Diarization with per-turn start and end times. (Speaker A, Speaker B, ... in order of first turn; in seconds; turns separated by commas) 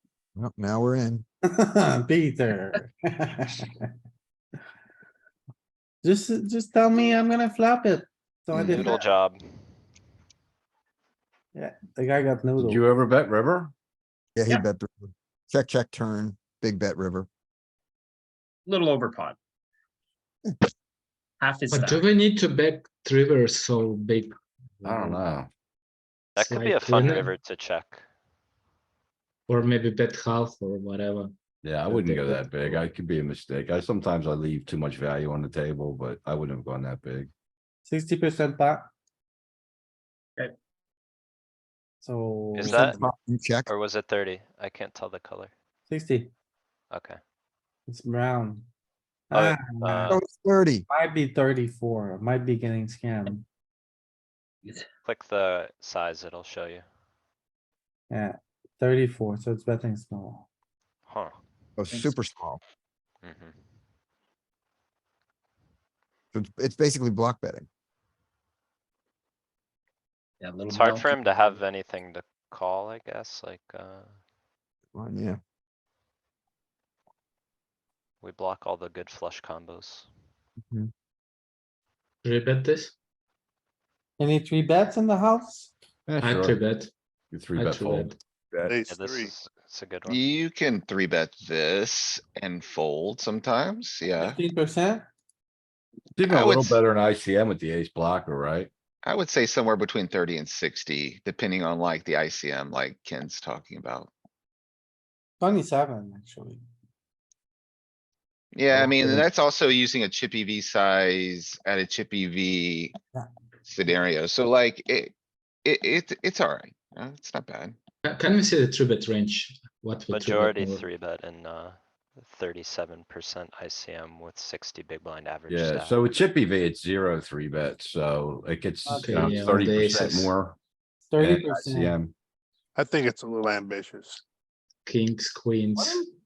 Speaker A: 0.4-1.2, Speaker B: 1.5-3.9, Speaker B: 6.0-9.1, Speaker A: 8.5-8.9, Speaker C: 8.6-9.4, Speaker B: 11.5-12.8, Speaker D: 12.6-13.7, Speaker A: 14.4-17.3, Speaker E: 18.7-19.4, Speaker E: 21.4-22.1, Speaker F: 21.7-25.3, Speaker D: 24.8-25.5, Speaker C: 26.4-28.0, Speaker F: 26.4-27.3, Speaker F: 29.5-31.3, Speaker D: 31.6-37.3, Speaker F: 31.9-32.4, Speaker B: 37.9-38.9, Speaker B: 42.0-43.0, Speaker C: 42.5-43.0, Speaker A: 42.6-43.7, Speaker C: 43.7-45.5, Speaker B: 45.9-46.3, Speaker C: 46.9-47.2, Speaker B: 47.9-48.7, Speaker B: 49.3-50.2, Speaker C: 49.3-50.2, Speaker A: 50.1-50.9, Speaker B: 50.9-53.4, Speaker C: 55.0-56.8, Speaker B: 58.1-60.5, Speaker C: 61.1-61.4, Speaker A: 61.8-62.6, Speaker E: 61.9-62.2, Speaker C: 63.2-63.6, Speaker A: 66.3-67.7, Speaker E: 70.4-71.6, Speaker C: 70.7-74.2, Speaker A: 74.9-75.4, Speaker C: 78.2-80.1, Speaker F: 82.2-82.9, Speaker B: 84.2-85.7, Speaker D: 86.1-86.6, Speaker F: 86.2-86.9, Speaker D: 87.3-88.1, Speaker F: 87.5-88.2, Speaker G: 88.7-89.3, Speaker C: 88.9-90.3, Speaker H: 90.1-94.4, Speaker B: 94.2-95.1, Speaker D: 96.2-98.7, Speaker H: 96.3-96.8, Speaker H: 99.0-104.1, Speaker B: 105.4-106.6, Speaker H: 108.5-112.9, Speaker B: 108.7-109.3, Speaker H: 113.7-115.1, Speaker H: 115.7-117.8, Speaker F: 118.0-120.9, Speaker C: 120.1-126.0, Speaker D: 125.5-130.6, Speaker B: 128.9-129.3, Speaker F: 128.9-130.3, Speaker B: 131.1-132.0, Speaker D: 131.2-132.1, Speaker G: 132.8-134.2, Speaker F: 134.9-136.1